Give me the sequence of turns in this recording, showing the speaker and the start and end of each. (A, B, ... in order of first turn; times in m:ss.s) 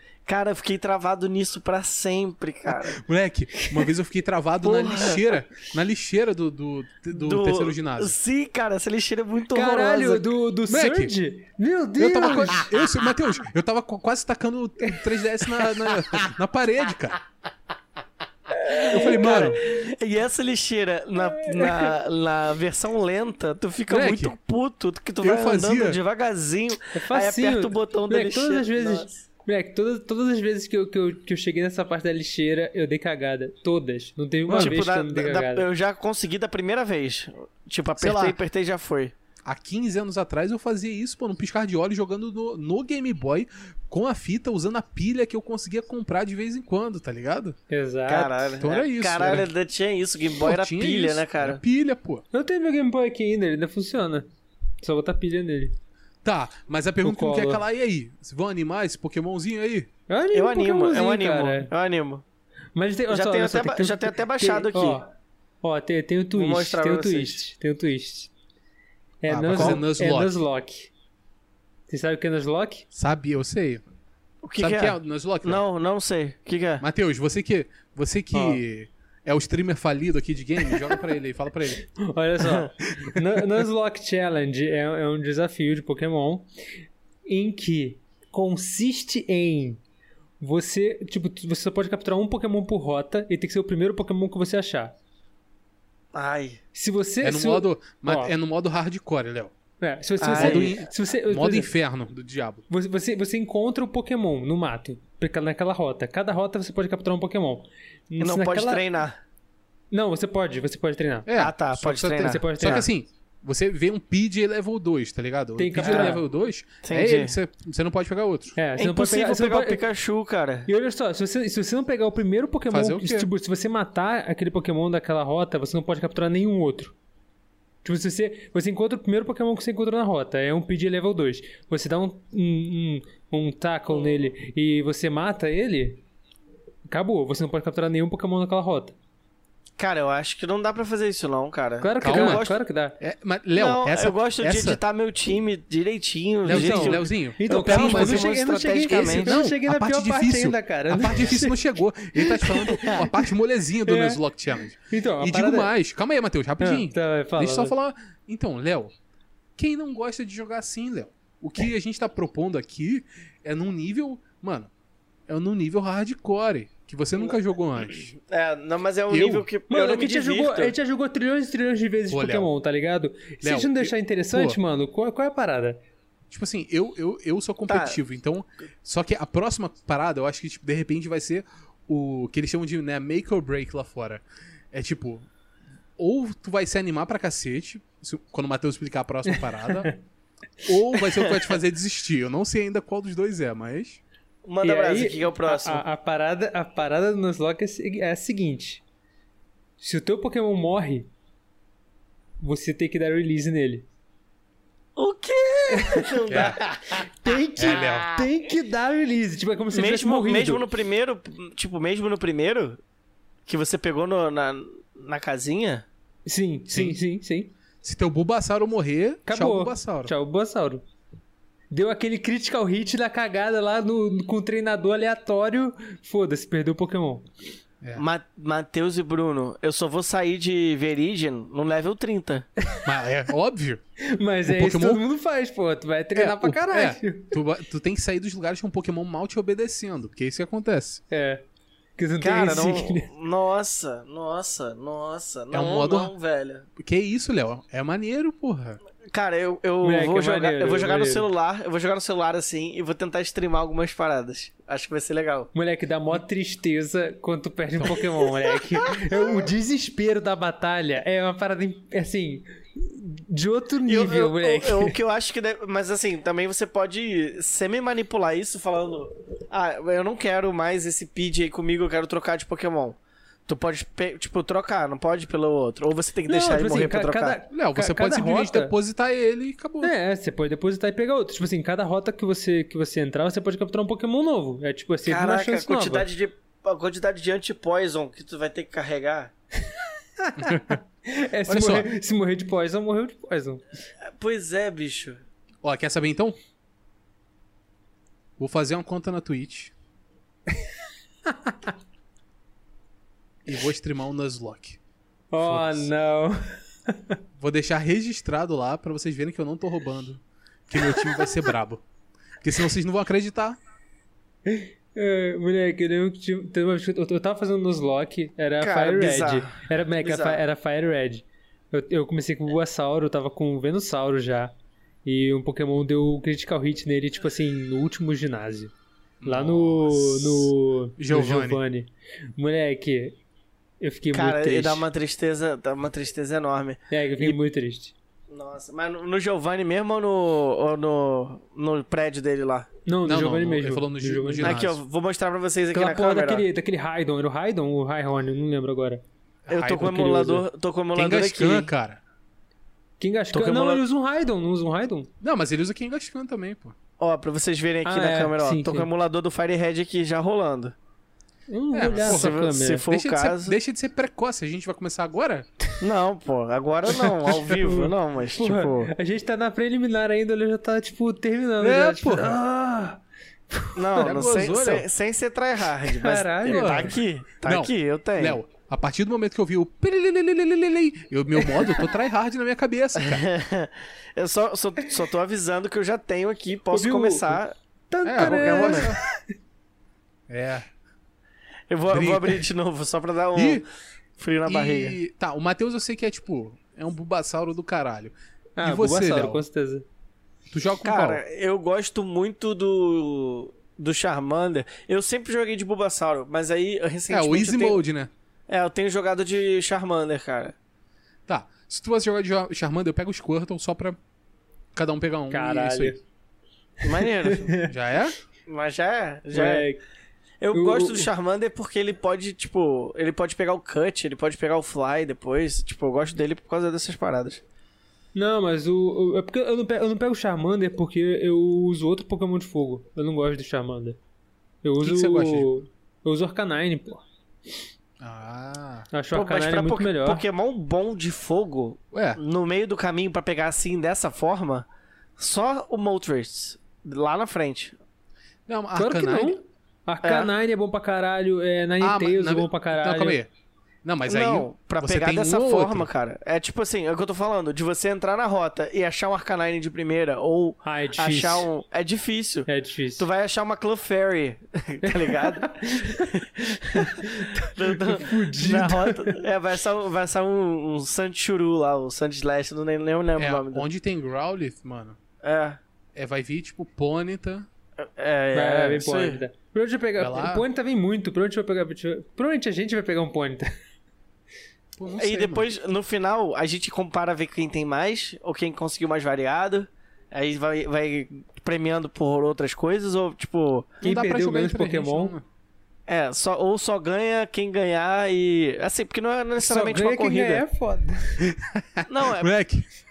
0:00.3-0:03.0 A
0:02.7-0:08.2 B
0:04.6-0:05.3 A
0:07.1-0:10.3 A
0:09.5-0:12.6 C
0:10.7-0:11.1 B
0:12.0-0:17.2 B
0:18.7-0:19.1 C
0:18.7-0:29.2 A
0:18.9-0:19.6 B
0:21.4-0:21.9 C
0:23.9-0:24.4 B
0:25.2-0:26.0 B
0:26.9-0:35.6 C
0:34.5-0:34.8 B
0:34.5-0:39.1 A
0:38.0-0:38.4 B
0:39.5-0:47.6 B
0:47.7-0:48.5 C
0:48.1-0:51.6 A
0:48.6-0:49.5 B
0:50.4-0:52.2 B
0:52.3-0:54.3 C
0:54.8-0:55.8 C
0:56.2-0:59.9 B
0:57.0-0:57.6 C
1:00.1-1:01.7 C
1:00.3-1:02.2 A
1:02.8-1:08.3 C
1:03.1-1:05.0 A
1:06.3-1:07.4 A
1:09.2-1:10.9 C
1:09.3-1:10.4 B
1:09.5-1:09.8 A
1:11.9-1:12.9 C
1:12.9-1:13.8 B
1:14.4-1:16.8 A
1:14.6-1:15.6 B
1:16.8-1:21.8 B
1:18.3-1:18.6 C
1:22.0-1:26.5 C
1:22.4-1:22.7 A
1:27.3-1:29.8 C
1:30.4-1:34.9 C
1:36.1-1:36.6 A
1:36.7-1:38.3 C
1:37.2-1:39.5 B
1:39.8-1:41.7 C
1:40.2-1:40.8 A
1:40.3-1:42.6 B
1:42.7-1:48.8 C
1:48.2-1:49.2 A
1:49.9-1:51.3 C
1:51.3-1:58.6 B
1:51.4-1:52.5 A
1:52.2-1:52.9 C
1:55.6-1:56.2 C
1:55.8-1:56.2 A
1:56.8-1:57.4 A
1:58.6-1:59.8 C
1:58.8-2:00.7 A
2:00.7-2:07.0 C
2:02.7-2:03.3 B
2:07.8-2:16.0 C
2:16.9-2:19.0 C
2:19.8-2:22.6 A
2:21.8-2:23.0 C
2:22.0-2:22.5 B
2:23.0-2:24.8 B
2:23.6-2:29.4 A
2:26.4-2:28.3 B
2:26.5-2:31.6 C
2:28.9-2:38.9 B
2:32.2-2:33.1 C
2:33.8-2:34.2 C
2:34.9-2:35.7 C
2:36.6-2:37.7 C
2:39.6-2:44.7 B
2:45.3-2:48.1 B
2:48.1-2:50.8 A
2:49.1-2:49.5 B
2:49.7-2:55.8 C
2:52.1-2:52.5 B
2:53.4-2:54.6 B
2:56.3-3:05.3 B
2:57.7-2:58.0 A
3:06.0-3:09.9 B
3:09.3-3:10.0 C
3:10.6-3:14.0 B
3:14.4-3:15.8 A
3:14.6-3:18.8 C
3:19.8-3:21.1 C
3:22.4-3:23.9 C
3:25.0-3:27.1 A
3:25.7-3:26.5 C
3:26.3-3:26.6 B
3:27.0-3:30.6 C
3:27.6-3:28.2 B
3:29.7-3:32.8 A
3:33.5-3:35.8 A
3:36.3-3:37.5 C
3:36.7-3:37.0 B
3:37.8-3:40.1 B
3:39.3-3:40.8 C
3:41.7-3:47.3 C
3:48.0-3:52.5 A
3:52.8-3:53.8 B
3:54.0-3:57.4 C
3:54.5-3:55.0 B
3:56.2-4:01.0 B
4:01.1-4:01.4 C
4:02.0-4:03.1 C
4:02.2-4:06.7 A
4:05.5-4:06.1 B
4:06.8-4:08.8 B
4:09.1-4:15.5 A
4:09.8-4:11.3 C
4:15.5-4:25.0 C
4:18.9-4:19.5 A
4:23.9-4:37.4 A
4:36.3-4:38.8 C
4:37.5-4:39.9 B
4:39.8-4:46.1 C
4:45.1-4:49.3 A
4:50.2-4:53.6 C
4:50.4-4:50.8 B
4:51.5-4:51.9 B
4:54.2-4:55.2 A
4:55.6-4:56.4 B
4:58.4-4:59.7 B
5:01.3-5:01.7 C
5:03.5-5:04.8 B
5:05.3-5:07.2 C
5:05.4-5:05.9 B
5:07.4-5:11.8 B
5:10.8-5:11.3 C
5:12.4-5:13.6 B
5:14.5-5:24.5 C
5:18.6-5:20.4 A
5:25.0-5:28.7 C
5:29.2-5:31.6 B
5:29.2-5:33.2 C
5:33.8-5:34.8 C
5:34.1-5:37.4 A
5:36.9-5:38.0 C
5:38.3-5:42.7 A
5:42.9-5:44.5 C
5:43.0-5:44.8 B
5:44.4-5:46.4 A
5:45.7-5:49.0 C
5:49.5-5:50.0 B
5:49.5-5:51.7 A
5:49.8-5:50.4 C
5:51.0-5:52.0 B
5:53.0-5:55.1 C
5:53.3-5:53.8 A
5:55.2-5:56.8 B
5:57.0-6:00.8 A
5:57.8-5:58.9 C
6:01.5-6:02.8 C
6:01.7-6:05.5 B
6:02.0-6:03.6 A
6:05.8-6:08.9 A
6:06.9-6:14.2 C
6:11.6-6:12.4 B
6:13.8-6:18.4 A
6:14.0-6:14.9 B
6:15.8-6:17.0 C
6:16.5-6:23.2 B
6:23.0-6:27.5 A
6:26.7-6:29.2 C
6:28.0-6:29.0 B
6:28.1-6:28.9 A
6:30.3-6:30.7 B
6:31.7-6:33.6 A
6:31.9-6:32.4 B
6:33.4-6:33.6 B
6:34.2-6:35.0 A
6:34.5-6:39.4 B
6:38.6-6:39.8 C
6:40.5-6:41.2 B
6:40.8-6:47.8 A
6:47.1-6:48.1 B
6:48.5-6:50.6 A
6:51.3-6:54.0 B
6:54.7-6:56.0 B
6:55.3-6:56.0 C
6:56.8-6:57.6 A
6:56.9-6:57.7 C
6:57.7-6:58.2 B
6:58.5-6:59.7 A
6:59.3-6:59.8 C
7:00.4-7:07.4 A
7:00.5-7:01.1 C
7:08.2-7:14.0 C
7:14.6-7:17.0 C
7:14.8-7:15.6 B
7:18.0-7:18.9 B
7:18.9-7:20.2 C
7:19.1-7:24.7 A
7:21.9-7:22.2 B
7:25.2-7:27.8 A
7:28.5-7:29.4 B
7:28.8-7:33.2 C
7:30.0-7:30.3 A
7:31.8-7:33.3 B
7:33.8-7:35.9 B
7:34.1-7:53.7 A
7:40.6-7:41.5 C
7:42.5-7:43.1 C
7:44.8-7:49.2 C
7:53.2-7:55.0 B
7:55.2-7:55.6 A
7:56.0-7:57.5 B
7:57.8-7:59.2 A
7:58.3-8:03.5 C
8:00.0-8:00.4 B
8:04.8-8:05.5 B
8:05.0-8:13.8 A
8:13.8-8:15.2 C
8:13.8-8:15.2 B
8:15.9-8:20.4 A
8:19.4-8:21.3 C
8:21.2-8:22.7 B
8:21.9-8:22.3 A